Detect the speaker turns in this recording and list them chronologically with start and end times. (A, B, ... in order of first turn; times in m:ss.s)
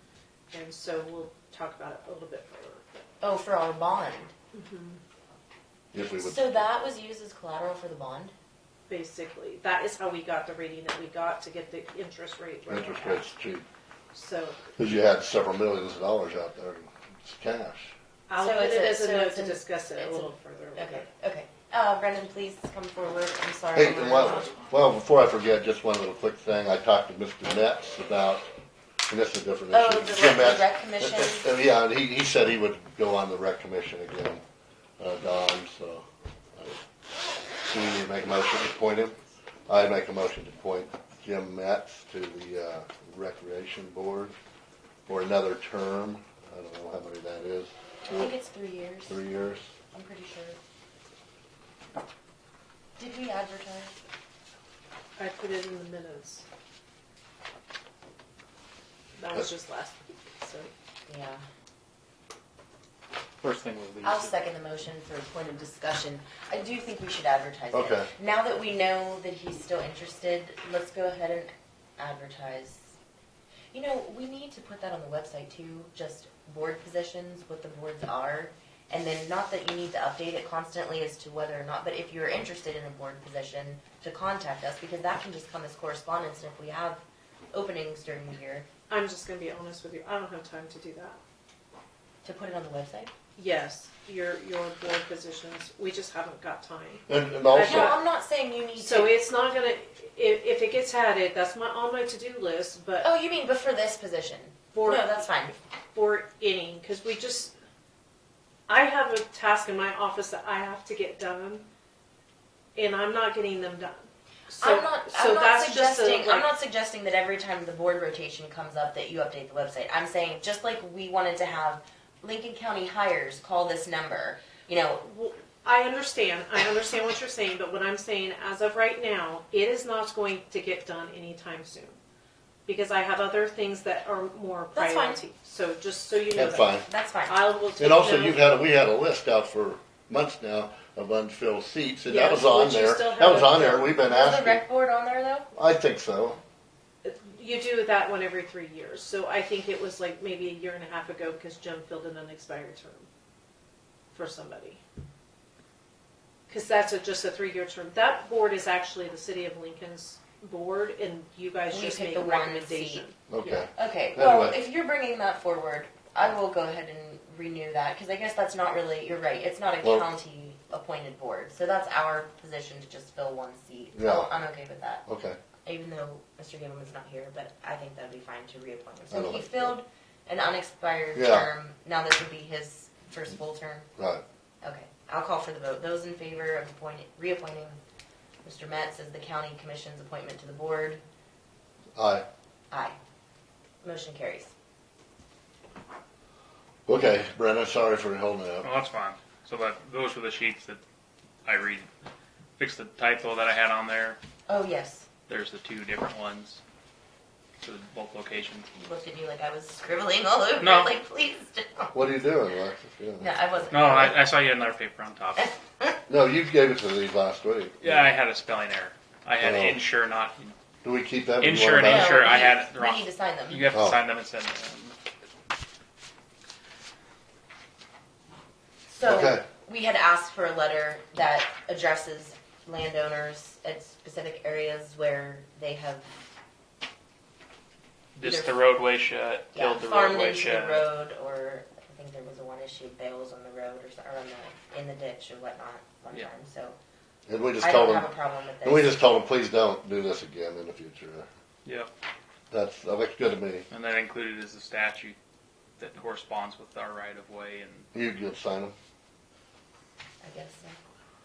0:00.5-0:03.0 A
0:03.2-0:04.3 B
0:04.5-0:05.0 A
0:05.9-0:06.6 C
0:06.2-0:08.3 B
0:08.9-0:13.3 A
0:12.7-0:13.7 C
0:14.1-0:14.6 A
0:14.8-0:17.9 C
0:18.3-0:21.1 A
0:18.4-0:24.5 B
0:23.7-0:28.5 C
0:29.1-0:34.4 C
0:29.7-0:31.5 B
0:35.0-0:36.8 C
0:37.6-0:39.2 C
0:39.7-0:44.3 C
0:45.1-0:48.3 C
0:48.0-0:49.2 B
0:49.1-0:49.7 C
0:49.9-0:50.6 B
0:53.0-0:53.9 B
0:55.2-0:56.4 A
0:59.2-1:00.7 A
1:01.1-1:01.4 B
1:03.4-1:04.3 D
1:04.0-1:13.0 B
1:07.7-1:08.1 C
1:13.7-1:28.6 B
1:28.9-1:31.2 A
1:32.2-1:33.1 B
1:33.4-1:38.0 A
1:37.1-1:37.9 C
1:37.6-1:39.2 B
1:38.8-1:43.1 A
1:43.0-1:45.5 B
1:44.7-1:47.5 A
1:48.7-1:51.6 A
1:52.7-1:56.5 A
1:54.6-2:05.0 B
2:05.0-2:12.0 A
2:12.6-2:18.4 A
2:14.7-2:15.2 B
2:16.3-2:16.9 C
2:16.8-2:17.4 B
2:17.8-2:24.6 C
2:22.0-2:24.0 A
2:24.0-2:25.5 B
2:25.5-2:26.4 C
2:27.0-2:33.1 A
2:34.1-2:34.8 A
2:36.5-2:43.7 A
2:41.7-2:43.0 B
2:43.3-2:44.6 C
2:43.7-2:55.0 B
2:53.9-2:54.3 C
2:55.1-2:55.4 C
2:55.6-3:03.9 B
2:59.1-2:59.7 C
3:01.1-3:01.5 C
3:04.0-3:04.2 C
3:04.6-3:07.8 B
3:08.4-3:11.0 B
3:11.9-3:12.2 C
3:12.7-3:13.0 B
3:13.8-3:14.5 B
3:16.9-3:18.7 C
3:18.6-3:20.8 D
3:21.4-3:21.9 D
3:22.6-3:24.2 D
3:24.5-3:25.0 B
3:25.3-3:26.6 D
3:27.6-3:28.7 D
3:28.7-3:31.9 B
3:30.6-3:31.0 D
3:31.9-3:33.7 C
3:33.2-3:34.2 B
3:33.7-3:35.5 D
3:35.4-3:36.0 B
3:36.1-3:38.0 C
3:37.8-3:40.6 D
3:39.4-3:39.8 C
3:40.8-3:42.3 C
3:41.4-3:45.0 D
3:41.8-3:43.8 B
3:43.7-3:44.0 C
3:48.9-3:56.1 B
3:49.0-3:49.4 C
3:58.2-4:00.9 D
3:59.5-4:06.8 B
4:07.3-4:08.1 C
4:07.6-4:08.9 B
4:08.6-4:11.3 C
4:11.6-4:11.9 D
4:12.5-4:13.7 C
4:13.7-4:15.2 D
4:15.8-4:17.8 D
4:17.9-4:18.7 C
4:20.2-4:20.8 B